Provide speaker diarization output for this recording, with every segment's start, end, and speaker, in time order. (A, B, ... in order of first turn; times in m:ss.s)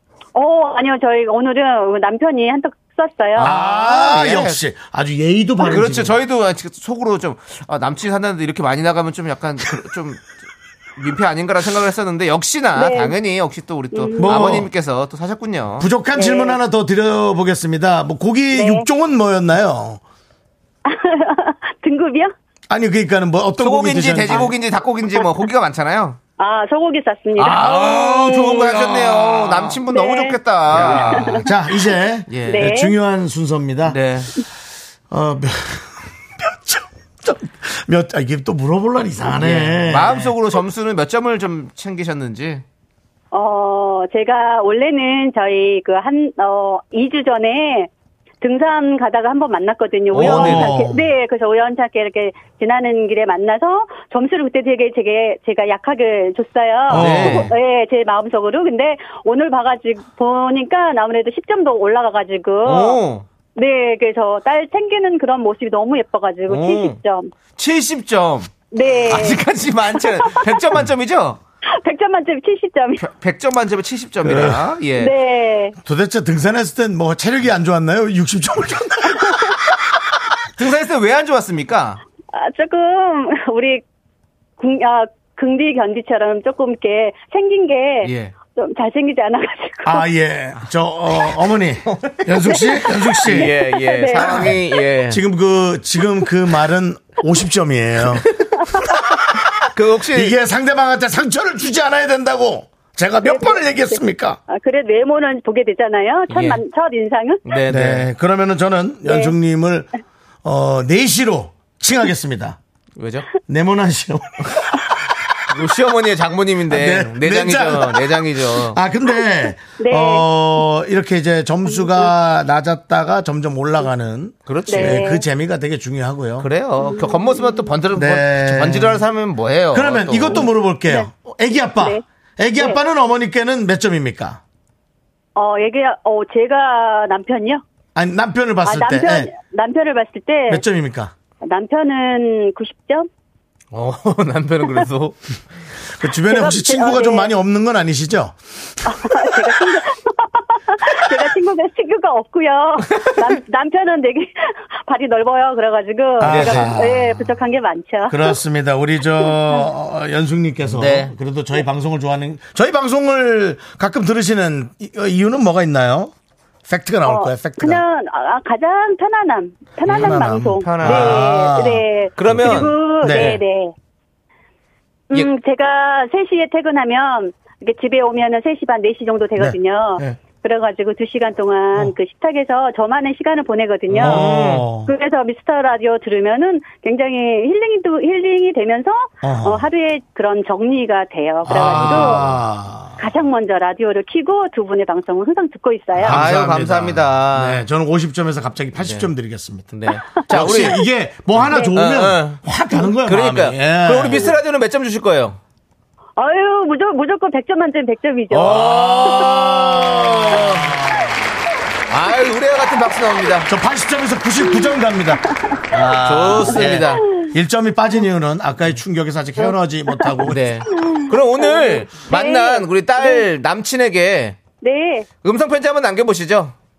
0:00.4-0:03.6 A
0:03.4-0:04.6 B
0:03.4-0:06.2 C
0:05.6-0:10.2 B
0:11.0-0:15.9 B
0:12.8-0:13.2 A
0:13.9-0:14.6 A
0:14.2-0:14.7 C
0:15.8-0:20.0 C
0:16.2-0:16.6 A
0:18.5-0:18.9 A
0:20.9-0:22.3 A
0:22.7-0:24.5 C
0:23.6-0:26.2 B
0:26.4-0:27.6 A
0:27.4-0:29.8 C
0:27.4-0:31.4 B
0:29.9-0:31.4 A
0:30.7-0:34.0 C
0:32.3-0:32.7 B
0:32.5-0:32.9 A
0:33.9-0:34.3 B
0:35.1-0:40.4 C
0:39.4-0:42.6 B
0:43.3-0:47.9 A
0:48.4-1:03.0 A
0:50.1-0:50.8 B
0:50.1-0:51.1 C
0:56.9-0:57.5 C
0:56.9-0:57.5 B
1:02.6-1:03.3 B
1:03.6-1:07.3 A
1:06.5-1:07.0 B
1:07.6-1:11.4 B
1:08.7-1:10.6 A
1:11.8-1:13.0 A
1:13.0-1:15.1 B
1:14.2-1:14.7 C
1:15.0-1:15.8 A
1:15.8-1:19.9 C
1:19.2-1:19.6 A
1:20.6-1:22.0 B
1:22.3-1:23.8 A
1:24.6-1:30.1 A
1:28.0-1:28.3 B
1:29.8-1:33.5 C
1:31.9-1:35.2 B
1:32.5-1:34.6 A
1:34.2-1:34.6 C
1:35.1-1:38.3 C
1:38.9-1:44.4 C
1:39.7-1:40.4 B
1:43.2-1:47.4 A
1:46.3-1:46.6 B
1:47.4-1:48.1 B
1:47.7-1:49.9 C
1:49.1-1:49.3 A
1:50.4-1:52.6 C
1:53.0-1:53.3 B
1:53.5-1:54.9 C
1:55.5-1:58.8 B
1:56.7-2:06.5 C
1:59.8-2:00.3 A
2:04.5-2:05.0 B
2:04.7-2:05.2 A
2:06.4-2:10.5 B
2:06.8-2:07.6 A
2:08.0-2:09.0 C
2:09.7-2:14.4 C
2:15.4-2:17.6 A
2:18.0-2:19.3 C
2:18.6-2:20.6 A
2:20.5-2:21.1 C
2:21.4-2:23.1 A
2:23.7-2:25.2 B
2:26.0-2:29.4 C
2:26.3-2:27.3 A
2:28.9-2:38.4 A
2:36.2-2:37.3 C
2:36.2-2:36.7 B
2:38.1-2:46.1 C
2:39.3-2:39.6 A
2:40.7-2:41.1 B
2:46.7-2:47.8 C
2:47.1-2:53.7 A
2:49.9-2:51.3 B
2:49.9-2:53.4 C
2:52.2-2:53.4 B
2:55.1-3:12.4 A
2:59.4-3:00.2 C
3:03.9-3:04.9 C
3:04.0-3:04.6 B
3:09.2-3:09.7 C
3:11.4-3:13.0 C
3:11.6-3:12.3 B
3:13.0-3:16.3 A
3:15.9-3:24.3 C
3:16.0-3:17.6 B
3:18.8-3:19.1 B
3:19.7-3:20.8 B
3:20.2-3:20.7 A
3:21.4-3:22.4 B
3:21.5-3:21.8 A
3:23.0-3:25.4 B
3:26.2-3:30.5 A
3:28.3-3:31.2 C
3:28.4-3:30.7 B
3:31.9-3:33.5 B
3:33.5-3:40.4 C
3:35.3-3:35.6 A
3:36.0-3:37.1 B
3:39.4-3:40.1 A
3:40.2-3:44.4 B
3:40.8-3:43.2 A
3:44.6-3:45.1 A
3:45.2-3:46.6 B